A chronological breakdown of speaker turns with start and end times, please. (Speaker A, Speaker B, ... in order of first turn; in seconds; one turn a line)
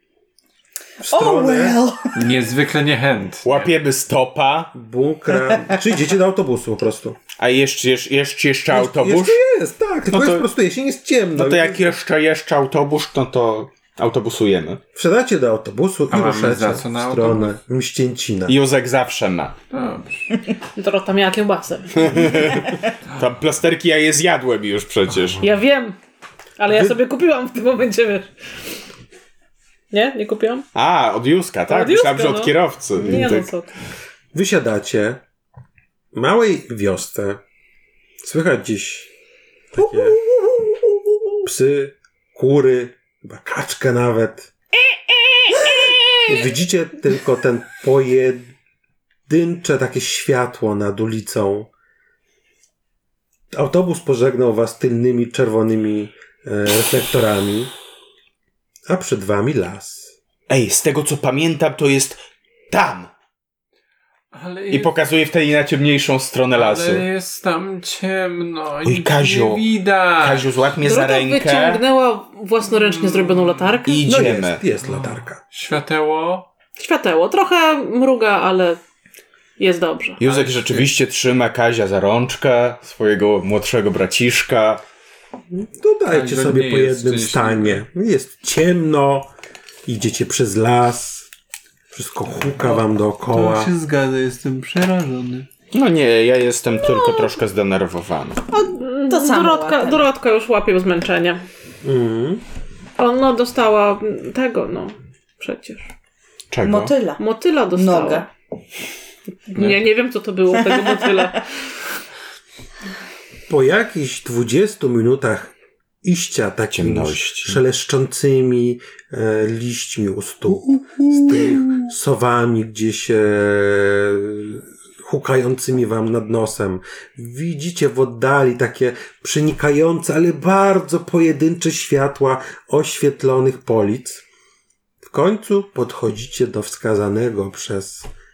Speaker A: 1.0-1.8
Speaker B: 1.1-2.1
Speaker C: 2.1-3.7
Speaker D: 3.4-4.7
Speaker A: 4.7-7.2
Speaker D: 7.4-9.4
Speaker A: 8.7-11.9
Speaker D: 10.1-10.4
Speaker D: 11.3-14.8
Speaker A: 14.9-18.6
Speaker C: 16.1-17.5
Speaker D: 18.5-19.6
Speaker C: 19.7-20.4
Speaker E: 20.8-22.1
Speaker D: 21.9-25.4
Speaker E: 25.4-26.0
Speaker E: 26.6-28.3
Speaker A: 26.7-27.0
Speaker E: 29.9-30.6
Speaker D: 30.7-33.5
Speaker E: 31.7-33.7
Speaker A: 33.0-33.4
Speaker A: 34.3-35.2
Speaker A: 36.1-37.4
Speaker A: 38.2-39.1
Speaker A: 39.7-40.2
Speaker A: 41.4-44.5
Speaker D: 45.3-46.2
Speaker A: 46.2-48.5
Speaker A: 49.3-51.7
Speaker A: 53.5-57.7
Speaker A: 58.9-60.1
Speaker D: 60.5-63.1
Speaker C: 64.3-65.0
Speaker D: 64.7-67.0
Speaker C: 66.5-70.7
Speaker D: 68.8-69.6
Speaker D: 70.2-71.8
Speaker E: 70.8-74.0
Speaker C: 72.7-73.9
Speaker D: 73.8-74.6
Speaker A: 74.0-75.4
Speaker C: 74.8-76.5
Speaker E: 76.8-78.8
Speaker E: 79.6-80.2
Speaker D: 80.2-84.8
Speaker C: 80.2-80.9
Speaker A: 85.5-89.3
Speaker C: 86.1-87.8
Speaker A: 89.8-91.3
Speaker A: 91.9-93.7
Speaker C: 92.6-95.5
Speaker D: 95.7-98.5
Speaker B: 98.5-100.0
Speaker E: 98.6-101.4
Speaker A: 101.8-102.4
Speaker E: 103.0-105.9
Speaker D: 106.5-106.9
Speaker B: 106.6-107.2
Speaker E: 107.2-108.3
Speaker B: 107.7-108.3
Speaker E: 109.5-111.4
Speaker A: 113.5-134.2
Speaker D: 116.7-117.6
Speaker A: 135.0-138.1